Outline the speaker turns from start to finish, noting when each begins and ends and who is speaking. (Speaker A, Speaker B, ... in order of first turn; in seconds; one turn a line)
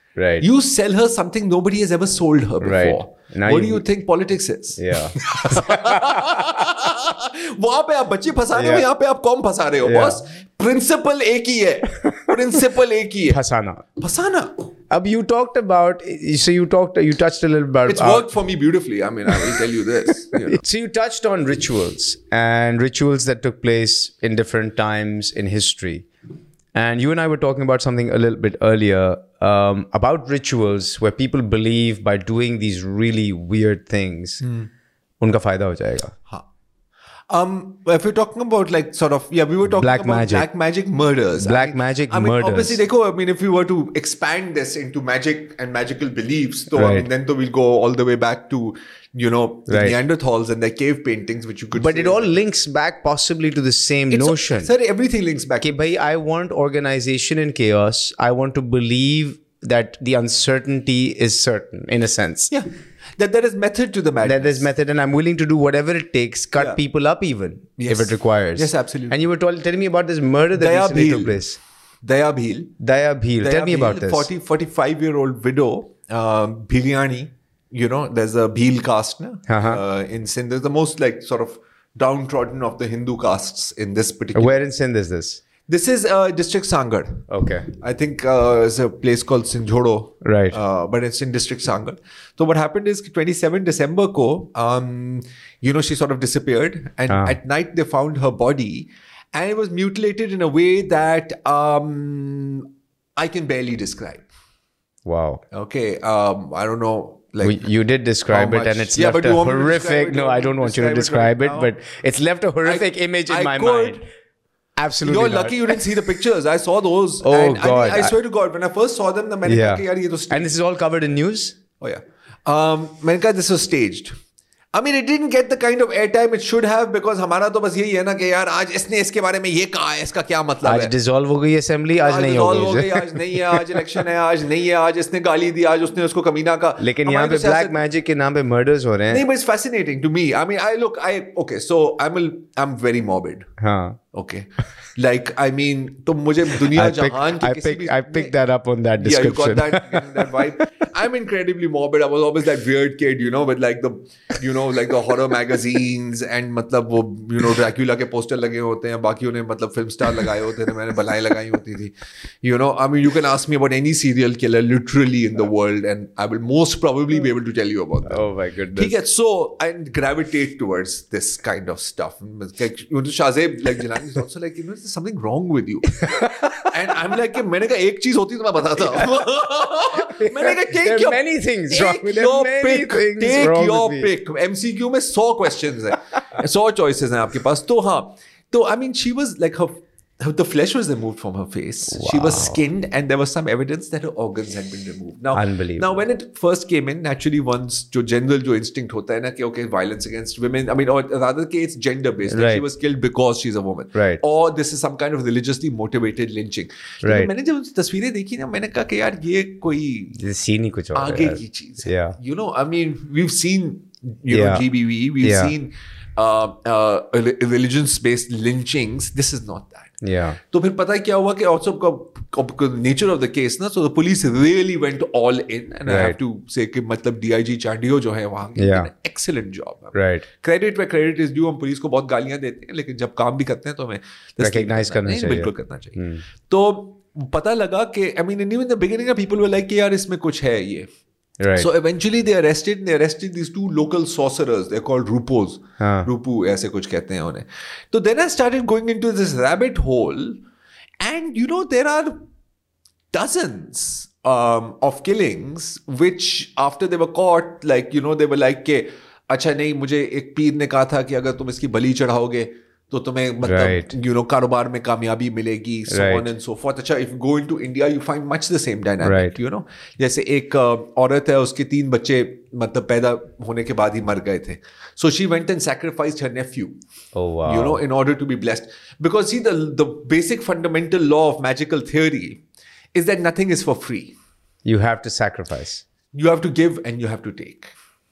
Speaker A: 0.1-0.5
Speaker B: 0.4-13.4
Speaker A: 2.6-3.8
Speaker A: 4.8-6.6
Speaker A: 8.5-8.8
Speaker A: 9.8-10.2
Speaker A: 13.3-13.8
Speaker B: 14.0-14.7
Speaker A: 14.9-18.3
Speaker B: 17.9-20.6
Speaker A: 19.3-19.6
Speaker A: 20.3-26.1
Speaker A: 26.7-34.4
Speaker B: 34.4-34.7
Speaker A: 35.2-36.1
Speaker B: 37.3-52.3
Speaker A: 39.7-40.5
Speaker A: 41.4-42.8
Speaker A: 46.7-47.1
Speaker A: 49.7-50.0
Speaker A: 51.7-54.7
Speaker B: 54.1-55.7
Speaker A: 55.6-62.5
Speaker B: 62.5-64.7
Speaker A: 64.2-71.6
Speaker B: 67.8-69.2
Speaker B: 70.5-71.4
Speaker B: 72.0-72.7
Speaker A: 72.8-74.3
Speaker B: 73.4-84.6
Speaker A: 79.5-79.8
Speaker A: 84.3-85.4
Speaker B: 85.7-104.2
Speaker A: 87.3-87.7
Speaker A: 90.2-90.6
Speaker A: 97.1-97.4
Speaker A: 105.0-105.4
Speaker B: 105.5-107.7
Speaker A: 107.4-114.0
Speaker B: 108.3-111.7
Speaker B: 112.6-114.0
Speaker A: 114.8-116.1
Speaker B: 115.0-120.5
Speaker A: 117.2-118.1
Speaker A: 119.5-121.6
Speaker B: 121.8-124.1
Speaker B: 124.7-130.9
Speaker A: 130.6-133.8
Speaker B: 132.0-137.7
Speaker A: 136.8-139.2
Speaker B: 139.1-143.5
Speaker A: 143.6-144.0
Speaker B: 144.1-148.3
Speaker A: 146.6-150.4
Speaker B: 149.0-210.2
Speaker A: 168.1-169.0
Speaker A: 176.0-176.7
Speaker A: 180.0-184.1
Speaker A: 191.9-192.6
Speaker A: 195.3-196.0
Speaker A: 202.3-202.6
Speaker A: 203.9-204.2
Speaker A: 207.0-207.3
Speaker A: 210.1-212.2
Speaker B: 210.9-219.9
Speaker A: 214.3-214.7
Speaker A: 215.2-215.5
Speaker A: 220.0-220.4
Speaker B: 220.5-240.9
Speaker A: 225.9-226.2
Speaker A: 228.6-228.9
Speaker A: 229.9-230.2
Speaker A: 234.4-236.2
Speaker A: 241.4-241.7
Speaker B: 241.6-250.4
Speaker A: 245.8-246.1
Speaker B: 251.0-252.2
Speaker B: 253.1-276.8
Speaker A: 263.4-263.9
Speaker A: 265.9-266.3
Speaker A: 269.0-269.3
Speaker A: 277.1-277.8
Speaker B: 277.4-282.4
Speaker B: 282.9-284.1
Speaker A: 284.6-285.8
Speaker B: 286.1-287.7